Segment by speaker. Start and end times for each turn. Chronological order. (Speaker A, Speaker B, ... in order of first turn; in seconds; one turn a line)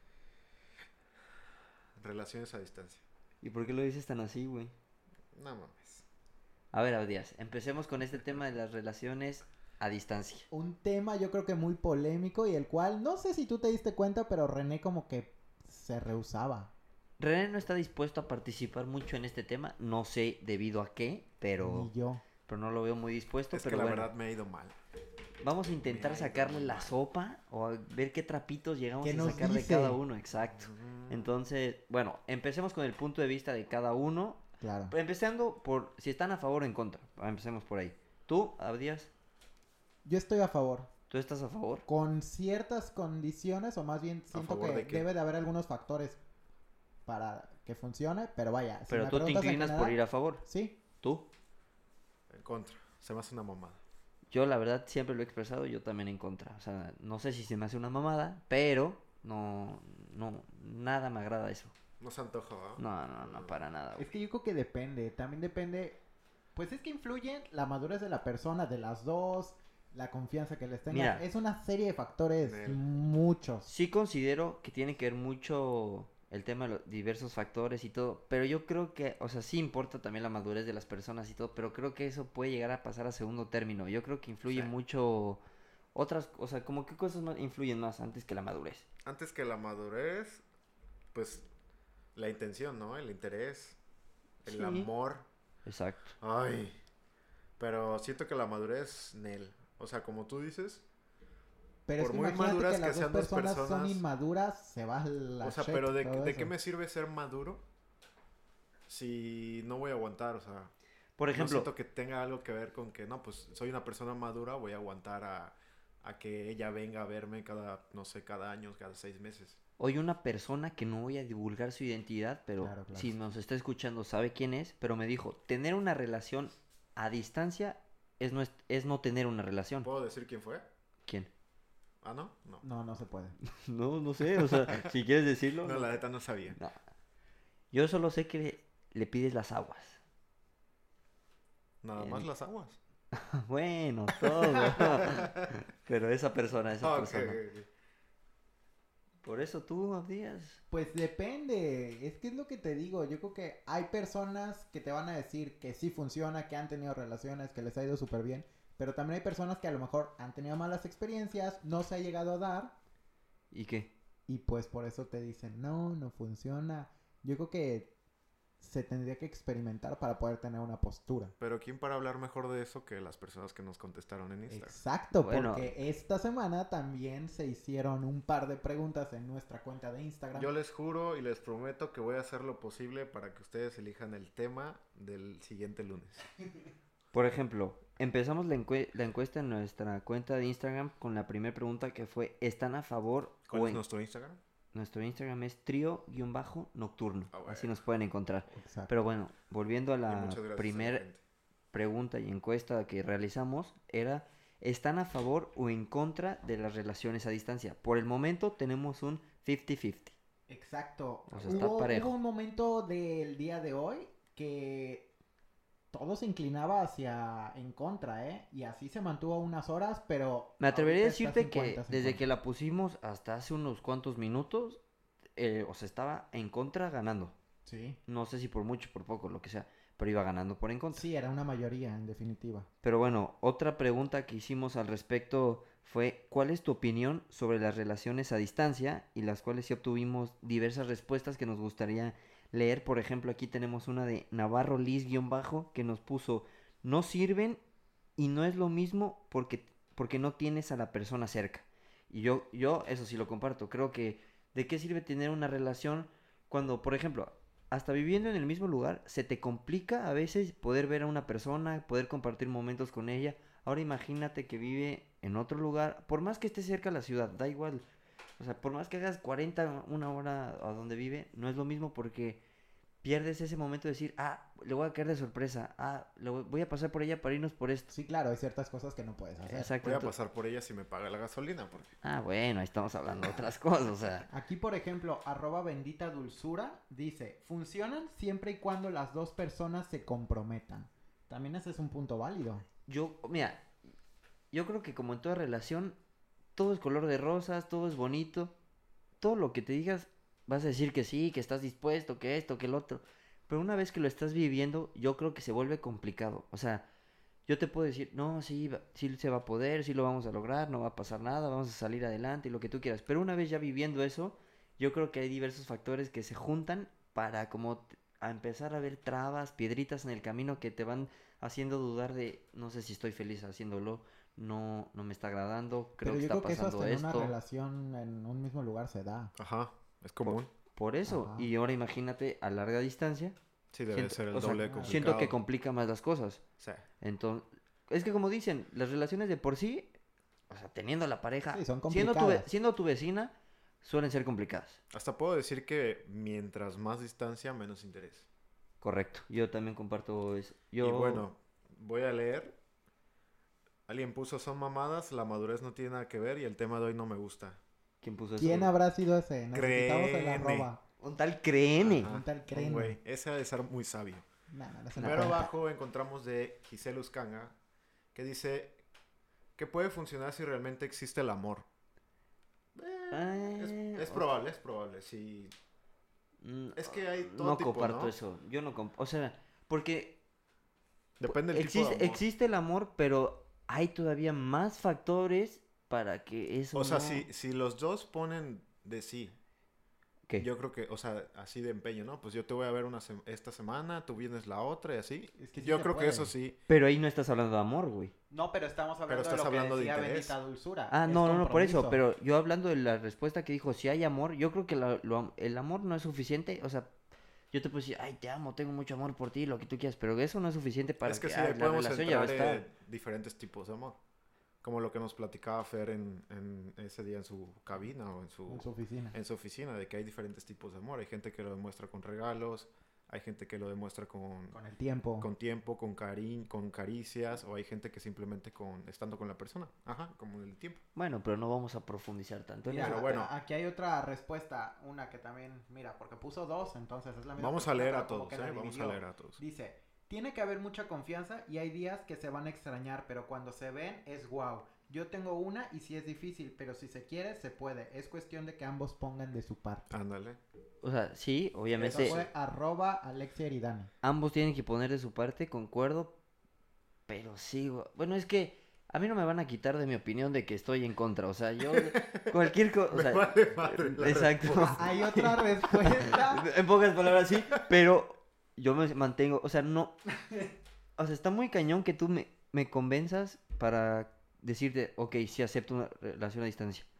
Speaker A: 2.0-3.0
Speaker B: 3.4-4.7
Speaker A: 5.3-6.0
Speaker B: 6.7-10.5
Speaker C: 10.5-16.7
Speaker B: 17.2-21.9
Speaker C: 21.6-22.2
Speaker B: 22.4-24.1
Speaker A: 23.5-24.7
Speaker B: 25.4-39.1
Speaker A: 25.8-26.9
Speaker C: 29.0-30.0
Speaker A: 30.4-31.3
Speaker C: 34.6-34.9
Speaker C: 40.0-40.9
Speaker B: 41.1-41.9
Speaker C: 41.9-46.2
Speaker A: 44.3-45.1
Speaker C: 47.0-50.8
Speaker B: 48.9-50.4
Speaker B: 51.0-51.3
Speaker A: 52.3-53.8
Speaker B: 54.3-61.7
Speaker A: 62.0-63.5
Speaker B: 62.8-64.0
Speaker C: 64.0-66.0
Speaker C: 66.5-73.7
Speaker B: 70.9-71.2
Speaker A: 72.4-72.8
Speaker B: 73.7-85.4
Speaker A: 84.5-84.7
Speaker B: 85.9-88.8
Speaker A: 89.0-90.4
Speaker A: 91.1-91.5
Speaker A: 92.1-93.8
Speaker A: 94.4-95.3
Speaker B: 94.4-94.9
Speaker B: 95.7-96.1
Speaker A: 96.2-96.8
Speaker A: 97.6-100.8
Speaker C: 101.9-106.5
Speaker A: 102.0-104.0
Speaker A: 105.4-107.6
Speaker A: 108.9-110.7
Speaker B: 111.2-111.7
Speaker A: 111.3-119.6
Speaker B: 119.8-129.9
Speaker C: 122.6-123.1
Speaker A: 129.8-130.7
Speaker A: 132.0-132.6
Speaker C: 132.6-133.3
Speaker B: 133.5-135.9
Speaker A: 134.4-134.9
Speaker A: 135.6-136.6
Speaker B: 137.7-140.0
Speaker A: 141.8-142.8
Speaker B: 142.0-142.3
Speaker B: 143.1-147.4
Speaker A: 144.2-145.5
Speaker A: 146.8-147.7
Speaker B: 149.2-150.6
Speaker C: 150.7-162.7
Speaker B: 163.5-163.9
Speaker C: 164.3-167.9
Speaker C: 168.6-171.3
Speaker A: 171.4-174.8
Speaker C: 174.5-180.5
Speaker B: 175.1-175.7
Speaker A: 180.3-186.2
Speaker B: 187.1-193.8
Speaker A: 193.5-194.4
Speaker B: 194.7-201.0
Speaker A: 197.3-197.7
Speaker C: 198.5-198.9
Speaker A: 200.1-201.2
Speaker B: 201.7-210.1
Speaker C: 210.5-215.1
Speaker A: 211.3-211.7
Speaker B: 211.3-212.1
Speaker C: 215.9-222.2
Speaker B: 220.6-224.8
Speaker B: 225.4-227.3
Speaker C: 227.7-228.0
Speaker B: 228.1-231.1
Speaker C: 230.9-232.7
Speaker B: 232.8-247.6
Speaker B: 248.2-267.8
Speaker B: 268.4-272.4
Speaker B: 273.0-277.9
Speaker C: 277.9-279.7
Speaker B: 279.4-280.1
Speaker A: 279.8-281.9
Speaker B: 282.0-284.3
Speaker C: 284.3-292.6
Speaker B: 292.9-293.7
Speaker B: 294.5-296.0
Speaker B: 296.6-298.5
Speaker B: 299.2-306.9
Speaker B: 307.5-327.4
Speaker C: 326.0-329.3
Speaker A: 329.4-330.5
Speaker B: 330.2-333.4
Speaker C: 331.1-331.5
Speaker A: 333.7-335.4
Speaker B: 333.9-336.4
Speaker C: 334.5-335.2
Speaker A: 336.6-336.8
Speaker B: 337.0-339.9
Speaker B: 340.5-344.8
Speaker C: 341.5-342.5
Speaker A: 344.9-348.3
Speaker B: 348.8-351.2
Speaker A: 350.8-352.6
Speaker A: 353.9-357.6
Speaker B: 358.0-358.7
Speaker C: 358.4-360.8
Speaker A: 359.5-360.7
Speaker B: 361.0-362.1
Speaker A: 361.8-364.2
Speaker C: 362.0-363.0
Speaker C: 364.5-365.5
Speaker B: 364.9-365.5
Speaker A: 365.0-367.5
Speaker A: 368.1-368.8
Speaker A: 369.6-371.6
Speaker A: 372.7-375.5
Speaker B: 373.1-374.2
Speaker B: 376.4-380.1
Speaker A: 376.8-378.1
Speaker A: 381.2-382.2
Speaker B: 381.3-387.2
Speaker A: 386.7-389.3
Speaker A: 390.4-396.6
Speaker C: 395.4-396.3
Speaker B: 396.7-398.1
Speaker C: 398.3-402.0
Speaker A: 399.1-400.4
Speaker B: 400.9-406.9
Speaker B: 407.5-412.6
Speaker A: 411.0-414.0
Speaker A: 414.6-424.6
Speaker C: 418.5-419.2
Speaker C: 424.5-425.3
Speaker A: 425.2-430.8
Speaker B: 430.9-433.1
Speaker C: 432.6-449.9
Speaker A: 432.8-433.3
Speaker A: 437.4-439.4
Speaker A: 449.9-450.4
Speaker B: 450.8-452.2
Speaker A: 451.8-452.3
Speaker C: 451.9-453.9
Speaker B: 454.0-456.1
Speaker B: 457.1-469.9
Speaker A: 461.7-462.4
Speaker A: 462.9-465.1
Speaker C: 464.5-466.4
Speaker A: 467.1-467.6
Speaker B: 471.0-476.9